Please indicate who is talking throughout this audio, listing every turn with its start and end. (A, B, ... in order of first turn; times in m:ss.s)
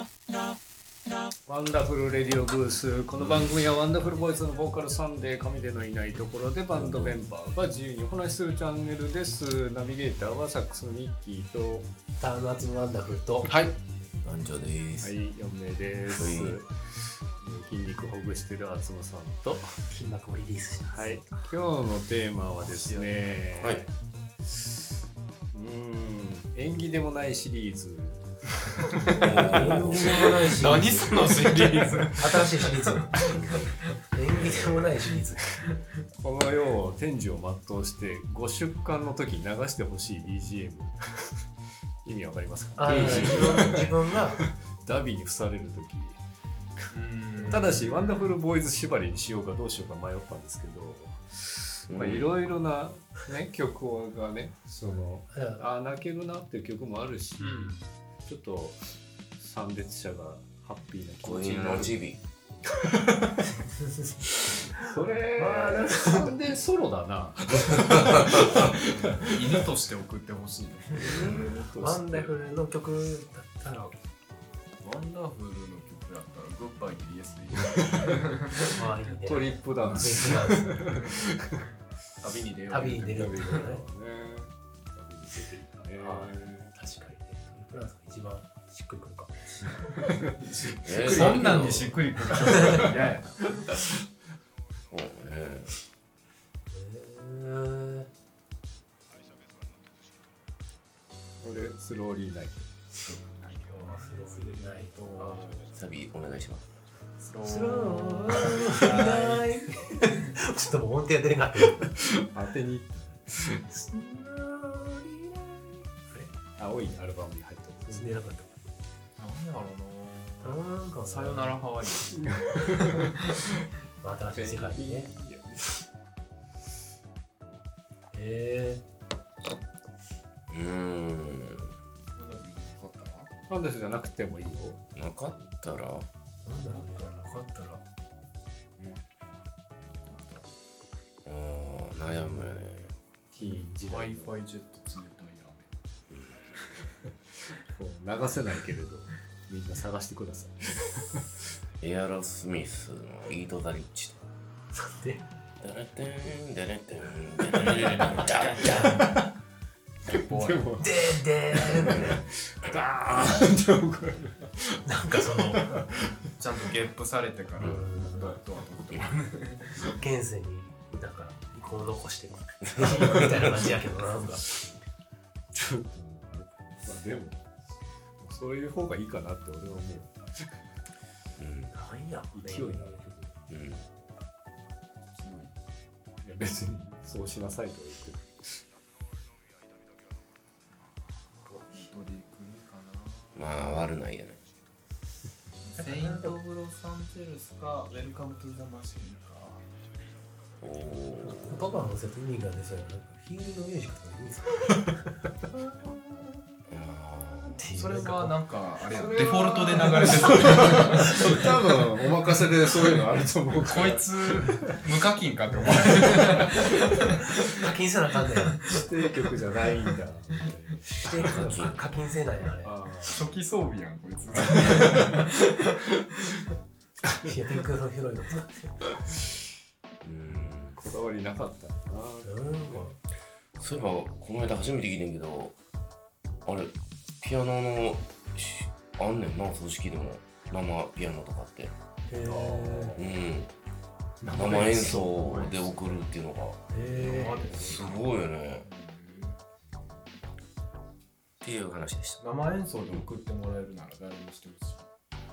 0:01.4-0:11.9 A
0:03.2-0:03.7 B
0:06.7-0:07.2 B
0:12.2-0:13.5 C
0:13.4-0:13.8 A
0:14.2-0:15.1 B
0:15.0-0:16.7 A
0:16.1-0:16.6 B
0:17.4-0:19.7 A
0:19.9-0:21.2 C
0:20.9-0:23.9 A
0:22.6-0:23.4 D
0:25.5-0:28.2 A
0:29.1-0:30.1 A
0:29.1-0:30.3 B
0:29.2-0:33.6 C
0:29.9-0:33.8 D
0:33.2-0:33.7 B
0:34.1-0:35.5 C
0:34.3-0:34.9 A
0:36.2-0:41.3 A
0:42.0-0:46.2 A
0:42.8-0:44.4 C
0:42.9-0:43.6 B
0:46.9-0:47.8 D
0:47.4-0:47.8 C
0:47.5-1:02.1 A
0:51.9-0:52.3 B
0:55.3-0:55.6 C
0:57.4-0:57.8 C
1:01.2-1:02.2 B
1:02.8-1:03.3 A
1:04.7-1:09.5 A
1:05.3-1:06.5 C
1:09.2-1:11.2 D
1:10.9-1:12.3 A
1:11.0-1:11.6 B
1:11.1-1:13.9 C
1:14.8-1:18.7 D
1:18.6-1:21.0 C
1:19.2-1:21.6 A
1:22.2-1:23.6 D
1:22.7-1:23.8 C
1:23.1-1:26.7 A
1:26.0-1:29.9 C
1:30.0-1:32.8 A
1:30.6-1:33.5 D
1:30.8-1:31.9 B
1:31.1-1:31.4 C
1:34.9-1:35.8 B
1:36.7-1:38.1 C
1:41.4-1:42.7 A
1:43.0-1:45.7 D
1:43.6-1:45.6 C
1:45.7-1:46.7 B
1:47.2-1:49.5 D
1:47.4-1:52.0 C
1:52.1-1:53.7 A
1:53.7-1:56.4 C
1:56.6-1:58.1 A
1:57.9-1:58.5 C
1:59.2-2:03.4 D
2:00.4-2:01.6 C
2:02.2-2:03.0 A
2:04.0-2:05.1 C
2:04.3-2:05.8 A
2:08.1-2:08.8 C
2:10.5-2:11.7 B
2:12.1-2:13.3 D
2:13.5-2:14.8 A
2:15.0-2:16.1 B
2:16.4-2:17.8 C
2:16.6-2:17.3 D
2:19.9-2:20.5 D
2:21.2-2:22.9 B
2:23.3-2:24.0 A
2:23.4-2:24.3 C
2:23.7-2:25.7 D
2:26.1-2:26.5 B
2:27.7-2:31.3 A
2:31.8-2:34.2 B
2:34.7-2:35.2 C
2:35.6-2:39.0 B
2:37.6-2:39.1 D
2:38.6-2:39.1 C
2:38.8-2:39.1 A
2:40.0-2:40.8 D
2:40.1-2:46.1 A
2:40.8-2:42.2 C
2:44.8-2:45.8 C
2:46.4-2:49.8 D
2:47.6-2:48.4 C
2:49.9-2:54.5 C
2:55.5-3:00.5 A
3:01.4-3:01.7 B
3:01.7-3:03.2 C
3:02.3-3:03.3 A
3:03.5-3:03.8 B
3:05.2-3:05.5 D
3:06.2-3:08.6 A
3:10.8-3:13.4 D
3:13.3-3:14.4 B
3:15.6-3:19.6 D
3:15.8-3:16.4 C
3:20.6-3:21.6 B
3:21.2-3:24.9 C
3:26.7-3:27.6 B
3:27.5-3:28.4 C
3:27.7-3:31.6 D
3:28.9-3:34.8 A
3:32.7-3:33.0 D
3:33.6-3:37.2 D
3:35.8-3:36.3 A
3:36.2-3:38.6 C
3:38.6-3:41.5 A
3:40.8-3:42.8 C
3:41.3-3:41.8 B
3:42.6-3:43.2 A
3:43.0-3:46.4 D
3:47.2-3:48.9 C
3:50.0-3:50.8 B
3:50.7-3:52.9 A
3:52.2-3:52.9 C
3:53.6-3:55.5 B
3:56.4-4:01.7 B
4:02.1-4:03.0 C
4:02.2-4:03.0 A
4:03.0-4:03.5 B
4:04.2-4:05.3 C
4:04.2-4:06.6 B
4:05.2-4:06.0 D
4:06.7-4:07.8 C
4:06.8-4:08.0 D
4:07.5-4:08.6 B
4:08.6-4:09.4 D
4:11.4-4:12.2 B
4:12.2-4:14.8 D